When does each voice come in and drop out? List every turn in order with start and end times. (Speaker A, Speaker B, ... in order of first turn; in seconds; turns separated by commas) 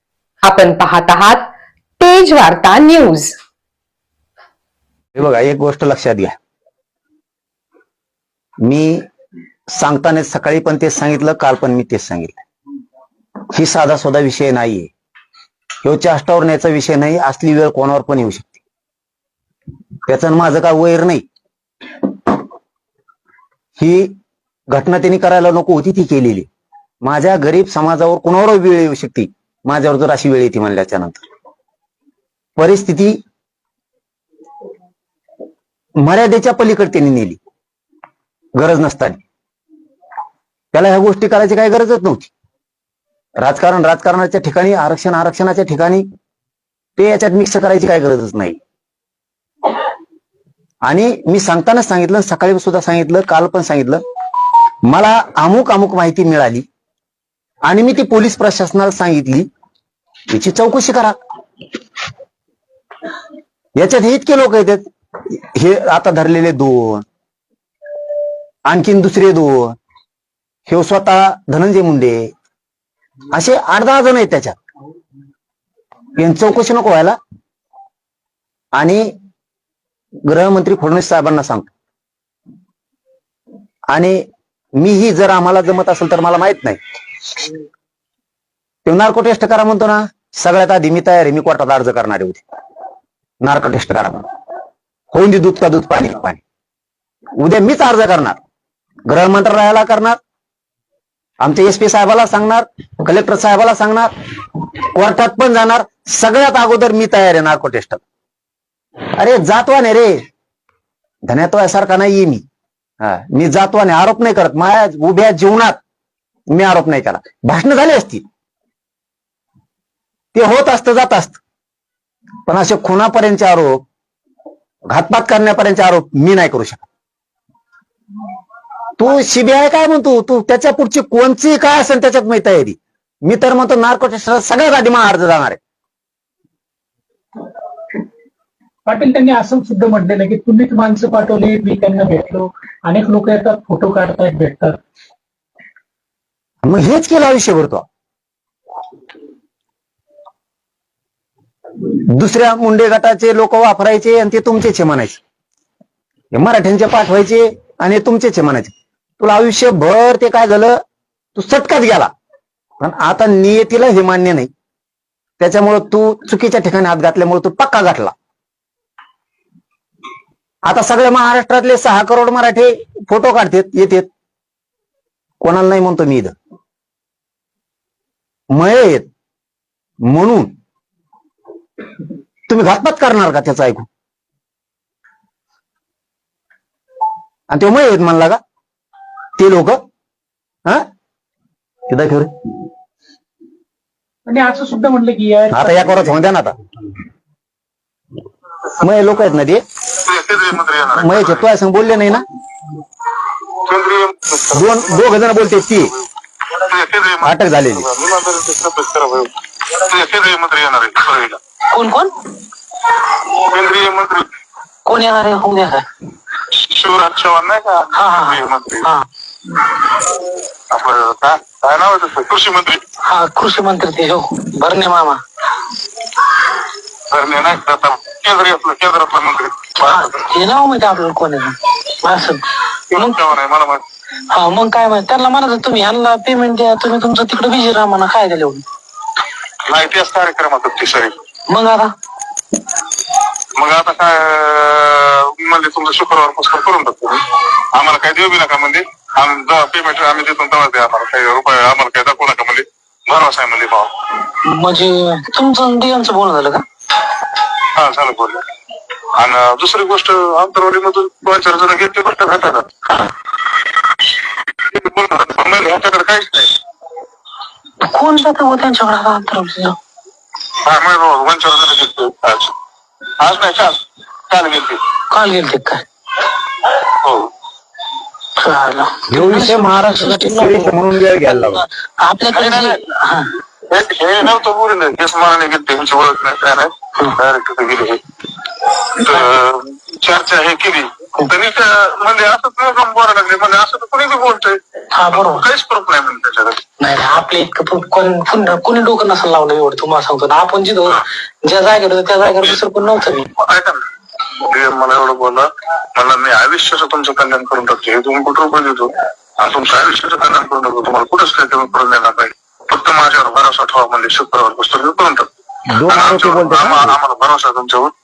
Speaker A: 0.4-3.3, Speaker B: 5.2-6.4, Speaker B: 8.6-9.1, Speaker B: 9.8-12.4, Speaker B: 13.5-14.9, Speaker B: 15.8-18.6, Speaker B: 20.1-21.2, Speaker B: 23.8-24.1, Speaker B: 24.7-26.5, Speaker B: 27.0-31.2, Speaker B: 32.6-33.2, Speaker B: 36.0-37.4, Speaker B: 38.6-39.2, Speaker B: 40.7-42.3, Speaker B: 43.4-46.1, Speaker B: 47.0-48.6, Speaker B: 50.9-54.0, Speaker B: 54.9-56.6, Speaker B: 57.7-59.5, Speaker B: 60.3-61.2, Speaker B: 63.8-67.0, Speaker B: 68.7-69.8, Speaker B: 70.7-72.3, Speaker B: 73.3-74.6, Speaker B: 76.2-77.2, Speaker B: 78.8-79.1, Speaker B: 80.3-81.7, Speaker B: 83.9-84.2, Speaker B: 84.8-86.8, Speaker B: 88.9-92.4, Speaker B: 93.4-94.3, Speaker B: 95.1-96.4, Speaker B: 97.4-98.4, Speaker B: 99.1-100.2, Speaker B: 101.4-104.1, Speaker B: 105.0-108.0, Speaker B: 109.2-110.2, Speaker B: 111.3-112.4, Speaker B: 113.0-115.8, Speaker B: 116.5-118.2, Speaker B: 120.3-121.4, Speaker B: 122.5-123.8, Speaker B: 124.9-126.9, Speaker B: 129.0-135.6, Speaker C: 138.9-144.8, Speaker B: 146.6-147.9, Speaker B: 152.1-155.2, Speaker B: 156.3-160.8, Speaker B: 161.3-162.1, Speaker B: 162.8-164.5, Speaker B: 165.4-168.1, Speaker B: 170.7-174.1, Speaker B: 175.4-176.3, Speaker B: 178.5-179.1, Speaker B: 180.1-180.5, Speaker B: 182.5-183.9, Speaker B: 187.5-188.4, Speaker B: 189.4-189.8, Speaker B: 191.9-192.3, Speaker C: 194.3-196.2, Speaker B: 195.5-196.6, Speaker B: 198.8-199.6, Speaker D: 200.0-201.4, Speaker B: 201.0-202.2, Speaker D: 203.7-206.1, Speaker B: 204.5-205.9, Speaker D: 206.7-211.4, Speaker B: 207.2-207.9, Speaker E: 211.7-212.1, Speaker D: 213.4-214.3, Speaker E: 214.8-215.8, Speaker D: 216.6-218.9, Speaker E: 217.9-219.0, Speaker D: 220.7-222.8, Speaker E: 223.0-225.2, Speaker D: 227.1-230.1, Speaker E: 229.8-232.4, Speaker D: 232.9-233.8, Speaker E: 234.3-238.7, Speaker D: 239.7-241.2, Speaker E: 241.5-241.9, Speaker D: 243.6-247.2, Speaker D: 247.8-253.9, Speaker E: 254.4-256.6, Speaker D: 257.8-258.4, Speaker D: 259.2-263.1, Speaker D: 264.7-266.5, Speaker E: 267.8-269.8, Speaker D: 270.6-272.5, Speaker D: 273.2-273.8, Speaker D: 274.3-274.8, Speaker E: 275.1-275.8, Speaker D: 277.0-277.3, Speaker E: 278.4-280.7, Speaker B: 279.1-281.6, Speaker E: 281.3-283.3, Speaker D: 282.3-282.8, Speaker D: 283.7-288.0, Speaker D: 289.0-294.6, Speaker E: 294.9-295.5, Speaker D: 295.1-296.6, Speaker E: 296.8-303.3, Speaker D: 303.4-303.8, Speaker D: 304.5-315.3, Speaker B: 315.7-317.0, Speaker D: 315.9-317.9